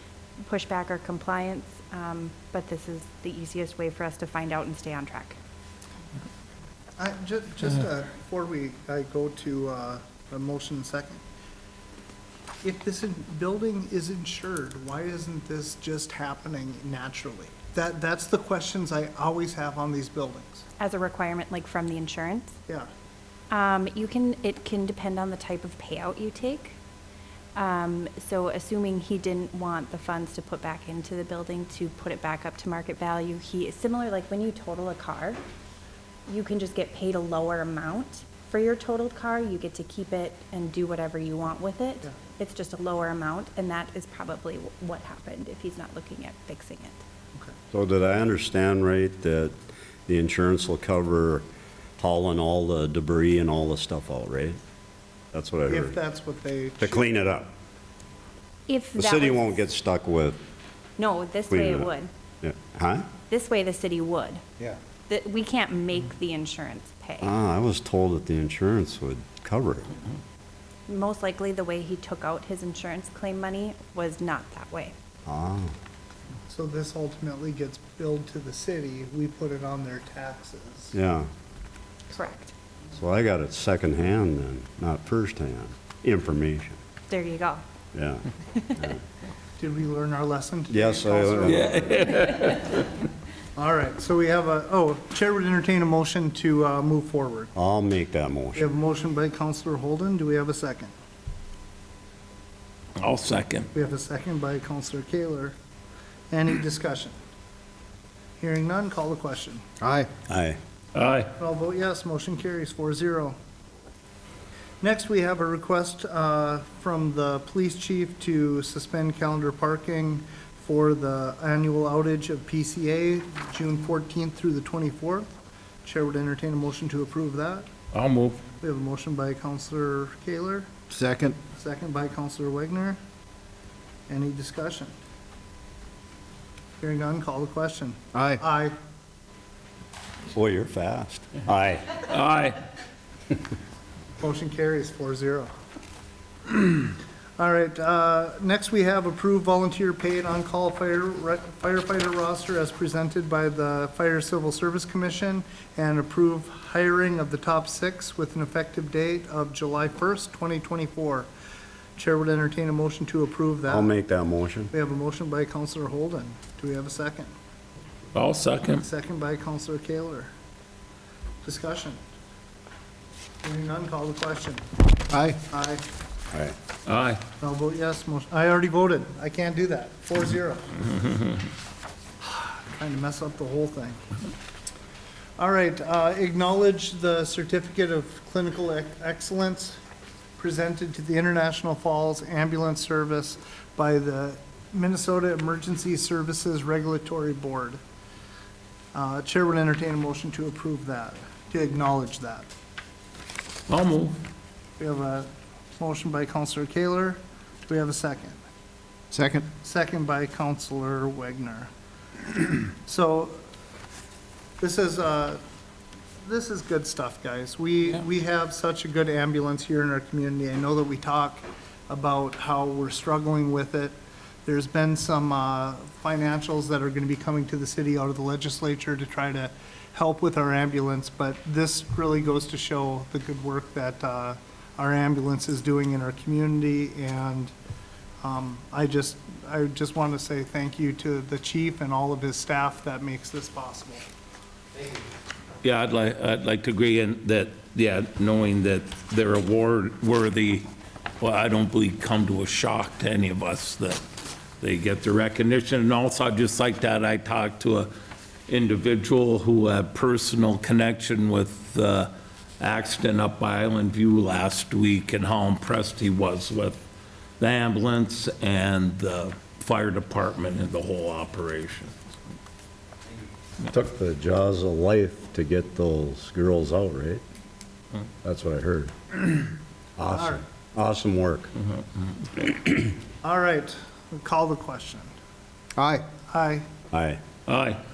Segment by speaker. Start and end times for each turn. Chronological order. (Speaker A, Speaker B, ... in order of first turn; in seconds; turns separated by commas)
Speaker A: 0.4-5.4, Speaker B: 7.0-11.2, Speaker B: 12.6-20.6, Speaker A: 20.8-22.6, Speaker A: 23.5-26.8, Speaker A: 27.5-35.4, Speaker A: 36.3-47.0, Speaker C: 47.7-49.5, Speaker C: 50.1-51.4, Speaker C: 52.0-54.6, Speaker C: 55.3-56.0, Speaker B: 55.7-57.1, Speaker C: 56.8-57.5, Speaker A: 58.7-59.6, Speaker C: 59.0-60.4, Speaker A: 61.0-62.1, Speaker C: 61.5-61.9, Speaker C: 62.4-63.1, Speaker A: 63.3-64.4, Speaker A: 65.1-67.3, Speaker C: 67.2-70.0, Speaker A: 70.9-74.9, Speaker C: 75.2-75.7, Speaker B: 76.5-80.9, Speaker C: 80.9-81.3, Speaker A: 82.1-82.5, Speaker C: 82.9-86.8, Speaker A: 87.1-87.6, Speaker C: 87.9-88.2, Speaker B: 89.6-92.1, Speaker C: 90.7-91.9, Speaker D: 91.5-93.0, Speaker B: 93.5-97.5, Speaker C: 97.5-98.7, Speaker B: 98.5-100.9, Speaker D: 103.0-103.7, Speaker B: 103.7-105.5, Speaker B: 106.3-107.2, Speaker B: 108.4-109.6, Speaker E: 109.8-110.1, Speaker C: 110.3-110.6, Speaker D: 110.9-111.3, Speaker B: 111.3-113.4, Speaker B: 114.8-125.3, Speaker B: 125.8-127.7, Speaker D: 127.9-128.4, Speaker B: 128.6-130.7, Speaker E: 130.9-131.4, Speaker B: 131.5-133.0, Speaker B: 134.1-134.9, Speaker B: 136.8-138.8, Speaker E: 138.1-138.4, Speaker C: 140.3-142.0, Speaker D: 142.0-142.6, Speaker B: 144.2-145.5, Speaker B: 147.4-161.3, Speaker B: 162.0-163.9, Speaker C: 163.7-164.7, Speaker B: 164.7-167.3, Speaker D: 168.1-168.8, Speaker B: 168.8-170.3, Speaker B: 171.4-172.0, Speaker B: 173.4-174.6, Speaker E: 175.1-175.4, Speaker B: 175.4-175.8, Speaker D: 176.8-177.2, Speaker B: 177.4-181.1, Speaker B: 182.2-184.0, Speaker B: 185.4-189.8, Speaker B: 190.4-197.8, Speaker B: 198.9-202.5, Speaker D: 203.7-204.2, Speaker B: 204.8-208.4, Speaker E: 209.1-209.5, Speaker B: 209.6-211.7, Speaker B: 212.3-213.4, Speaker B: 214.6-215.4, Speaker B: 216.2-223.9, Speaker B: 224.4-237.5, Speaker B: 238.2-244.0, Speaker D: 245.6-250.7, Speaker D: 251.2-254.0, Speaker D: 254.6-257.9, Speaker D: 258.5-266.8, Speaker D: 267.4-271.9, Speaker C: 273.7-277.2, Speaker C: 278.2-279.3, Speaker C: 280.0-281.5, Speaker B: 280.1-280.4, Speaker B: 283.2-285.1, Speaker E: 285.8-286.1, Speaker B: 286.3-286.7, Speaker C: 286.9-287.2, Speaker D: 287.5-287.8